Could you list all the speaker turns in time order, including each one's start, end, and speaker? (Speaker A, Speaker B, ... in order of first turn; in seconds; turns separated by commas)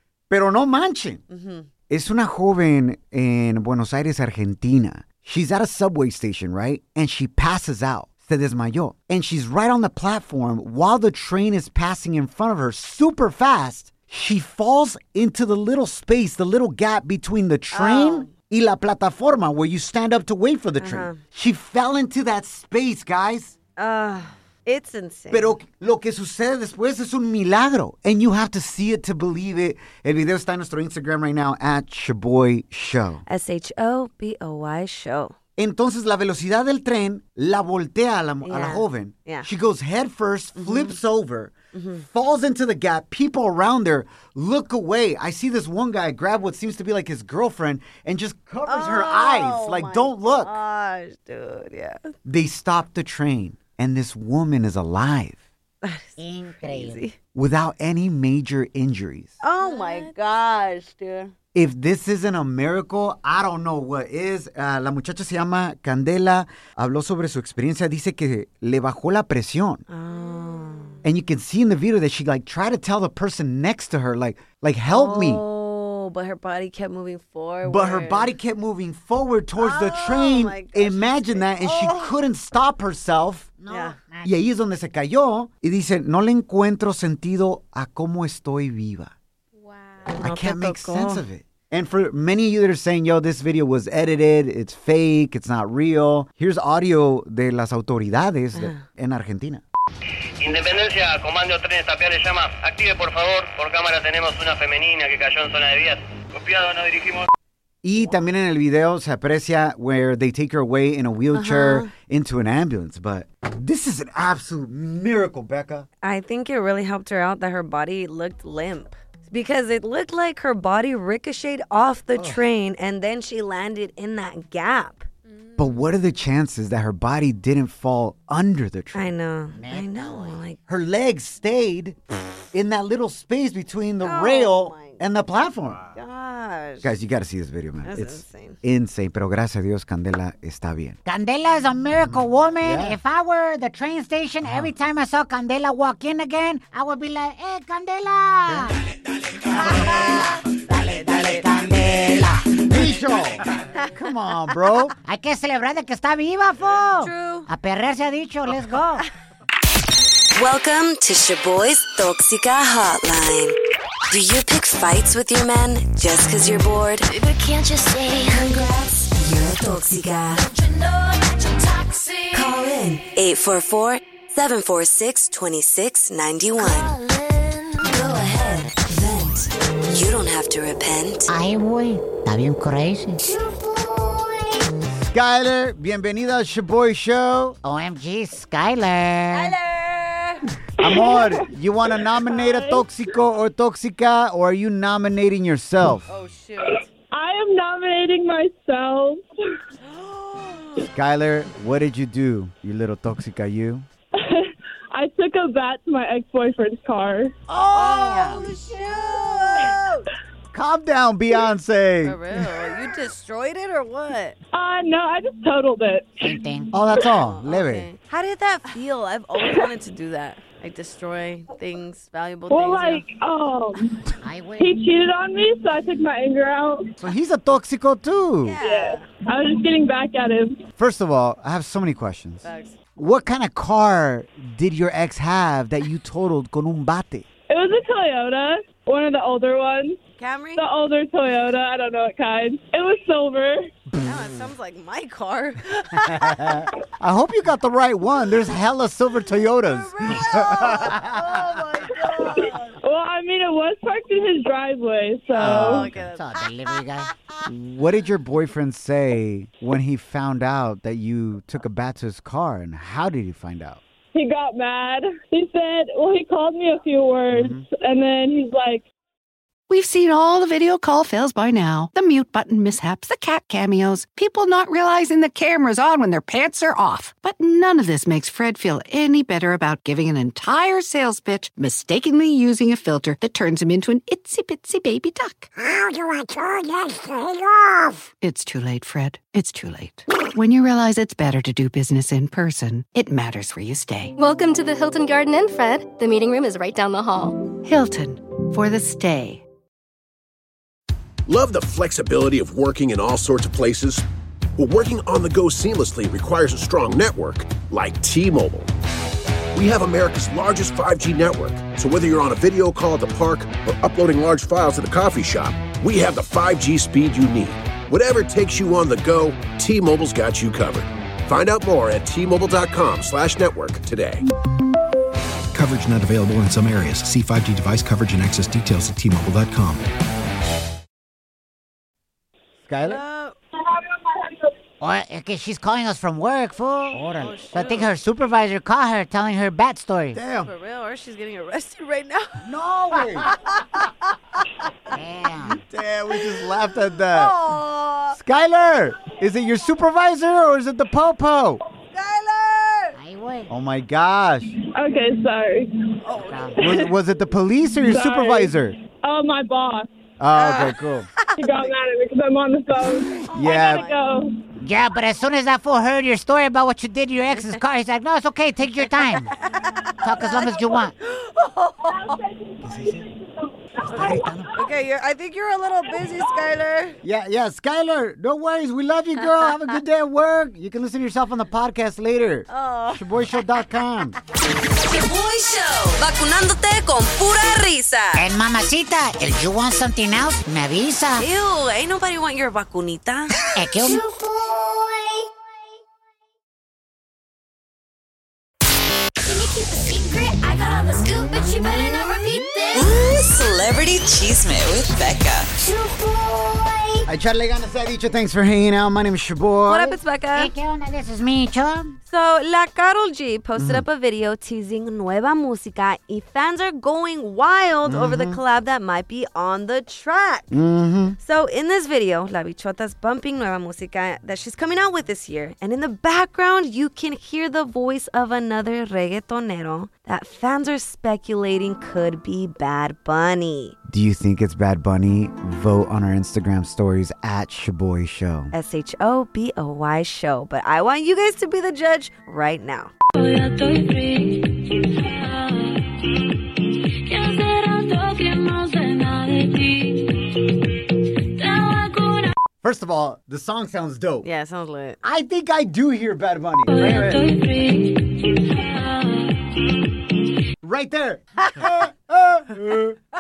Speaker A: 0.3-1.2, Speaker B: 1.3-1.7, Speaker A: 1.9-23.6, Speaker B: 17.7-18.3, Speaker B: 20.8-21.2, Speaker B: 23.8-25.6, Speaker A: 25.3-33.2, Speaker B: 33.3-35.4, Speaker A: 35.6-41.5, Speaker B: 38.4-39.5, Speaker B: 40.5-41.0, Speaker B: 41.7-42.0, Speaker A: 42.0-50.5, Speaker B: 48.6-52.1, Speaker A: 52.2-55.4, Speaker B: 55.8-57.1, Speaker C: 56.2-57.0, Speaker A: 57.3-59.4, Speaker B: 59.4-61.3, Speaker A: 61.5-69.8, Speaker B: 69.9-71.0, Speaker A: 71.0-75.4, Speaker B: 74.9-78.3, Speaker A: 77.6-83.5, Speaker B: 79.6-82.1, Speaker C: 83.6-84.3, Speaker B: 83.7-84.0, Speaker A: 84.2-89.1, Speaker B: 90.0-91.2, Speaker A: 90.2-99.6, Speaker B: 98.5-98.8, Speaker D: 100.4-107.3, Speaker A: 107.8-115.9, Speaker B: 111.3-111.9, Speaker B: 116.0-125.1, Speaker A: 122.2-122.4, Speaker A: 125.6-129.1, Speaker B: 128.9-130.6, Speaker C: 129.5-130.4, Speaker A: 130.7-132.0, Speaker A: 132.5-135.9, Speaker B: 134.0-135.0, Speaker B: 135.9-136.9, Speaker A: 136.8-141.0, Speaker B: 137.8-138.6, Speaker C: 141.0-148.8, Speaker A: 142.6-143.0, Speaker C: 149.4-152.7, Speaker B: 149.6-150.4, Speaker A: 152.6-154.9, Speaker C: 155.0-159.0, Speaker B: 156.9-157.5, Speaker B: 160.4-163.5, Speaker B: 164.1-167.0, Speaker E: 167.2-168.4, Speaker B: 168.2-170.4, Speaker E: 170.4-172.4, Speaker B: 172.3-176.9, Speaker B: 177.8-181.3, Speaker C: 181.3-183.3, Speaker A: 185.1-187.6, Speaker C: 187.6-189.6, Speaker B: 189.3-190.4, Speaker A: 190.8-196.1, Speaker F: 190.8-191.4, Speaker F: 192.3-192.8, Speaker B: 196.1-196.8, Speaker F: 196.7-199.2, Speaker B: 199.8-200.9, Speaker A: 200.9-203.9, Speaker F: 204.2-207.3, Speaker C: 207.5-208.5, Speaker B: 207.7-210.1, Speaker A: 210.5-212.2, Speaker B: 212.0-214.4, Speaker F: 214.5-216.3, Speaker C: 216.2-216.7, Speaker A: 216.7-217.9, Speaker B: 217.0-223.0, Speaker F: 222.5-224.0, Speaker C: 224.2-224.8, Speaker F: 224.6-226.9, Speaker A: 227.0-228.6, Speaker B: 228.4-229.1, Speaker F: 228.6-230.6, Speaker A: 230.8-237.2, Speaker B: 232.4-232.8, Speaker F: 237.5-240.0, Speaker B: 240.2-240.6, Speaker F: 240.6-243.7, Speaker B: 244.0-246.6, Speaker A: 246.2-251.2, Speaker B: 249.5-252.8, Speaker F: 252.2-255.9, Speaker B: 255.3-256.5, Speaker C: 255.4-257.1, Speaker A: 255.4-255.9, Speaker A: 257.4-263.8, Speaker F: 264.1-268.9, Speaker A: 267.3-267.6, Speaker G: 269.7-285.5, Speaker G: 288.2-294.1, Speaker H: 294.2-297.4, Speaker G: 297.6-299.4, Speaker I: 301.2-304.0, Speaker I: 304.6-308.7, Speaker I: 309.5-324.2, Speaker J: 325.5-329.8, Speaker A: 332.6-333.0, Speaker B: 332.9-333.4, Speaker F: 333.6-334.5, Speaker C: 334.8-340.2, Speaker A: 336.9-337.4, Speaker B: 337.2-337.9, Speaker A: 340.1-340.5, Speaker B: 340.4-342.4, Speaker A: 342.4-343.3, Speaker B: 343.2-344.6, Speaker C: 344.9-345.6, Speaker A: 345.6-347.4, Speaker B: 347.1-348.2, Speaker A: 348.1-351.6, Speaker B: 351.9-352.9, Speaker C: 352.9-353.5, Speaker A: 353.5-354.5, Speaker F: 354.7-355.9, Speaker B: 356.0-356.7, Speaker C: 356.3-356.6, Speaker A: 356.6-358.8, Speaker F: 357.8-359.9, Speaker A: 360.2-361.1, Speaker B: 360.4-361.7, Speaker F: 361.4-364.4, Speaker B: 363.2-363.9, Speaker A: 363.3-363.9, Speaker C: 364.6-369.3, Speaker B: 369.3-372.2, Speaker C: 370.0-370.9, Speaker F: 371.9-374.4, Speaker A: 372.6-373.1, Speaker B: 373.9-377.0, Speaker A: 373.9-374.5, Speaker A: 377.0-384.2, Speaker B: 382.5-383.0, Speaker B: 385.2-388.2, Speaker C: 388.1-391.2, Speaker B: 391.2-393.4, Speaker C: 393.5-394.0, Speaker E: 399.3-403.0, Speaker A: 407.1-410.0, Speaker B: 409.7-410.5, Speaker C: 410.3-412.0, Speaker B: 412.1-420.5, Speaker A: 413.6-413.9, Speaker A: 417.9-418.4, Speaker A: 420.5-421.2, Speaker B: 421.2-433.8, Speaker A: 433.9-438.5, Speaker B: 438.5-442.9, Speaker E: 443.1-446.3, Speaker E: 447.0-450.4, Speaker E: 451.3-452.3, Speaker A: 452.6-454.3, Speaker B: 454.2-455.0, Speaker A: 455.0-457.2, Speaker E: 456.7-459.9, Speaker A: 460.6-463.0